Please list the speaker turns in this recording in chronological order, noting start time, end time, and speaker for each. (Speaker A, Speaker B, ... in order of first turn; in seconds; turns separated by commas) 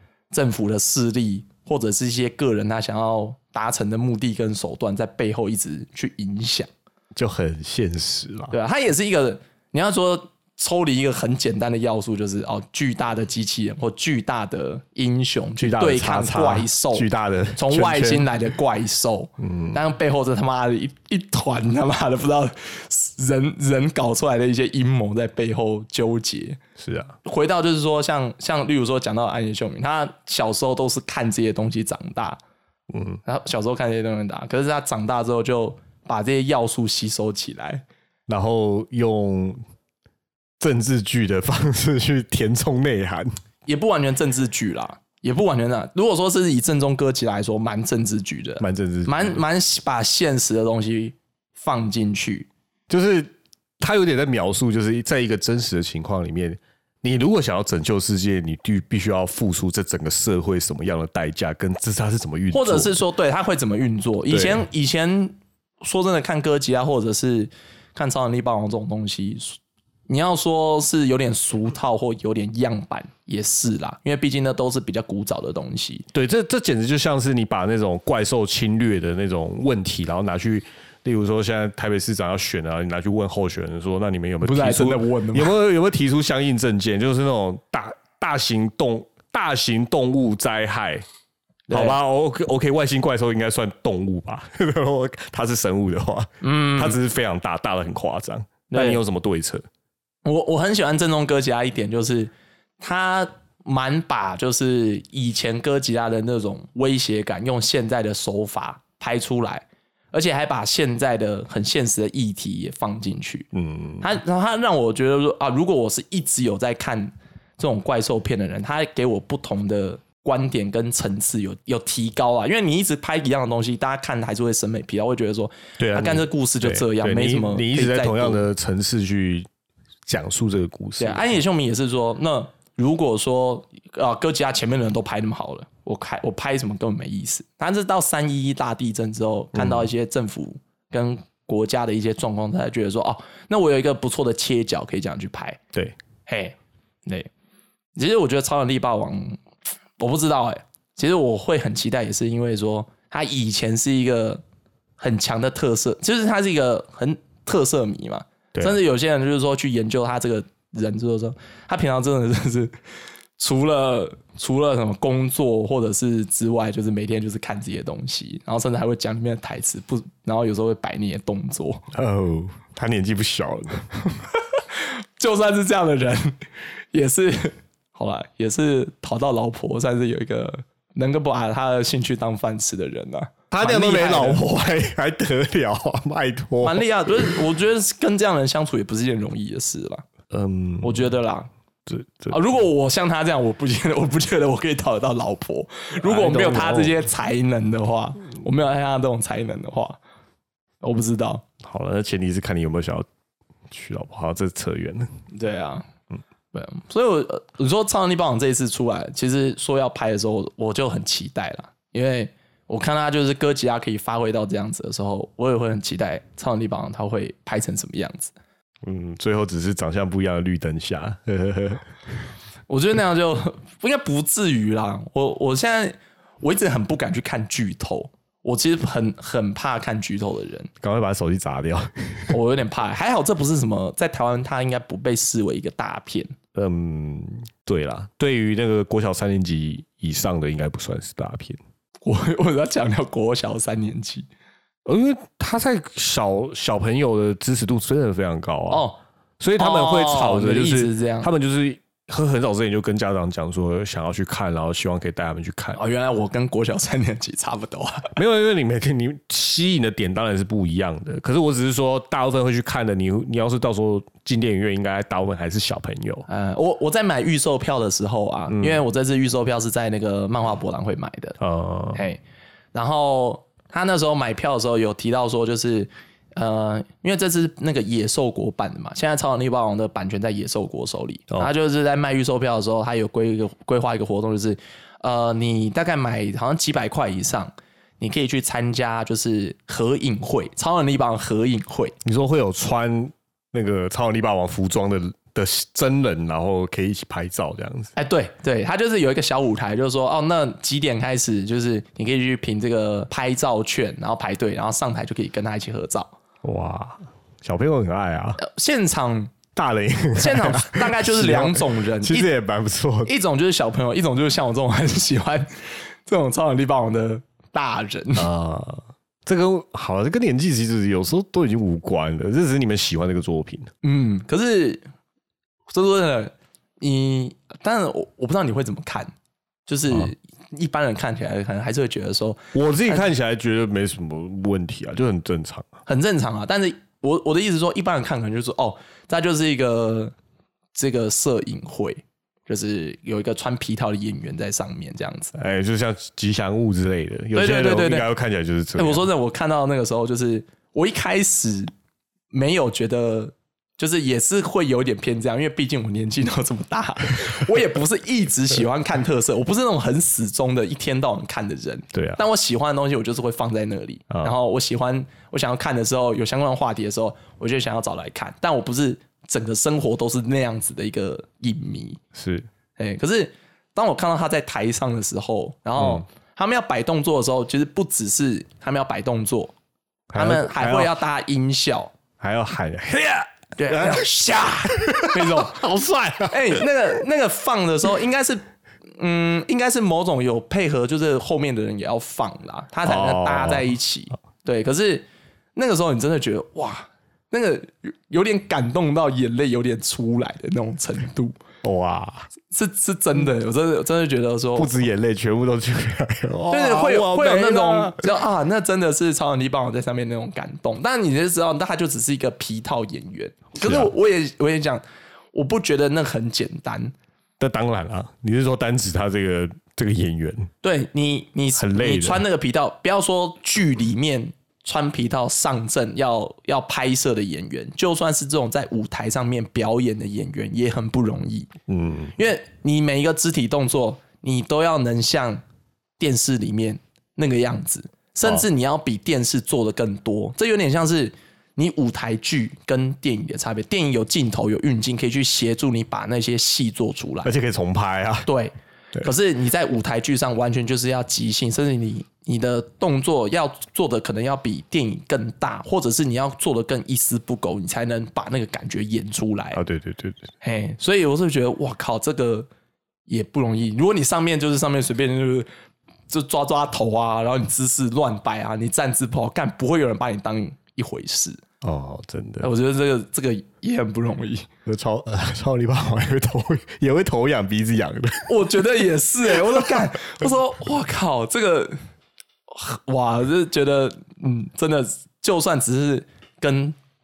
Speaker A: 0.3-6.7, Speaker B: 7.2-8.5, Speaker A: 8.5-26.6, Speaker B: 15.6-18.3, Speaker B: 19.4-19.8, Speaker B: 26.8-27.2, Speaker A: 27.2-32.4, Speaker B: 32.9-33.2, Speaker A: 33.2-37.8, Speaker B: 38.3-39.6, Speaker B: 40.6-43.3, Speaker A: 43.7-52.5, Speaker B: 48.6-49.4, Speaker B: 52.9-63.0, Speaker A: 62.5-76.1, Speaker B: 64.3-64.7, Speaker B: 76.1-91.0, Speaker A: 84.4-85.5, Speaker A: 91.7-92.0, Speaker B: 91.7-99.6, Speaker A: 96.4-97.0, Speaker A: 98.7-99.0, Speaker A: 100.2-113.5, Speaker B: 113.5-114.1, Speaker A: 114.0-128.4, Speaker B: 125.8-129.5, Speaker B: 130.1-131.4, Speaker A: 131.0-145.6, Speaker B: 139.5-139.9, Speaker A: 146.3-147.3, Speaker A: 148.0-149.4, Speaker A: 150.0-154.4, Speaker A: 155.0-162.7, Speaker A: 163.4-171.8, Speaker B: 171.9-174.0, Speaker A: 174.6-176.4, Speaker A: 176.9-184.4, Speaker B: 183.5-187.3, Speaker A: 186.6-190.0, Speaker B: 190.3-191.1, Speaker A: 190.8-191.5, Speaker B: 191.9-192.4, Speaker A: 192.3-200.0, Speaker B: 196.0-197.0, Speaker A: 200.8-201.4, Speaker B: 201.6-203.1, Speaker B: 203.7-205.1, Speaker A: 205.3-205.9, Speaker A: 206.5-218.3, Speaker B: 218.8-221.9, Speaker A: 222.7-230.7, Speaker B: 230.8-232.3, Speaker A: 232.3-236.4, Speaker B: 236.5-241.6, Speaker A: 242.1-244.3, Speaker B: 244.9-248.9, Speaker A: 248.7-249.0, Speaker B: 249.4-255.8, Speaker A: 249.6-251.3, Speaker A: 255.8-258.2, Speaker B: 258.2-266.3, Speaker A: 266.3-271.4, Speaker B: 268.5-268.8, Speaker B: 271.4-272.0, Speaker A: 271.9-272.2, Speaker A: 272.7-291.9, Speaker B: 292.0-297.9, Speaker A: 297.9-306.1, Speaker B: 306.4-308.4, Speaker A: 308.4-309.3, Speaker B: 309.5-313.1, Speaker A: 310.2-312.3, Speaker A: 313.1-315.5, Speaker A: 316.1-318.3, Speaker B: 318.2-323.7, Speaker A: 323.8-324.9, Speaker A: 325.7-329.1, Speaker A: 329.7-333.1, Speaker B: 332.5-335.7, Speaker A: 335.9-340.1, Speaker A: 340.8-345.3, Speaker B: 345.4-349.1, Speaker A: 347.4-348.1, Speaker A: 348.8-351.7, Speaker A: 352.3-372.0, Speaker B: 361.9-362.2, Speaker B: 372.1-372.5, Speaker A: 372.8-379.5, Speaker B: 375.8-376.1, Speaker B: 380.1-380.9, Speaker A: 380.1-381.9, Speaker B: 382.2-384.1, Speaker A: 383.6-385.6, Speaker B: 384.6-386.7, Speaker A: 386.3-388.4, Speaker A: 389.0-401.4, Speaker B: 392.9-393.7, Speaker B: 401.6-402.3, Speaker A: 402.5-404.7, Speaker B: 404.6-408.1, Speaker A: 406.5-414.8, Speaker B: 413.6-413.9, Speaker A: 415.3-416.9, Speaker B: 417.4-420.5, Speaker A: 420.6-431.5, Speaker B: 421.6-422.2, Speaker B: 431.7-432.1, Speaker A: 432.2-435.4, Speaker A: 436.0-447.3, Speaker B: 447.2-448.3, Speaker A: 448.3-459.6, Speaker B: 459.5-460.3, Speaker A: 460.4-462.5, Speaker A: 463.1-465.5, Speaker A: 466.1-471.4, Speaker B: 471.6-472.5, Speaker A: 472.4-474.5, Speaker B: 474.7-478.3, Speaker A: 478.3-481.8, Speaker A: 482.5-486.8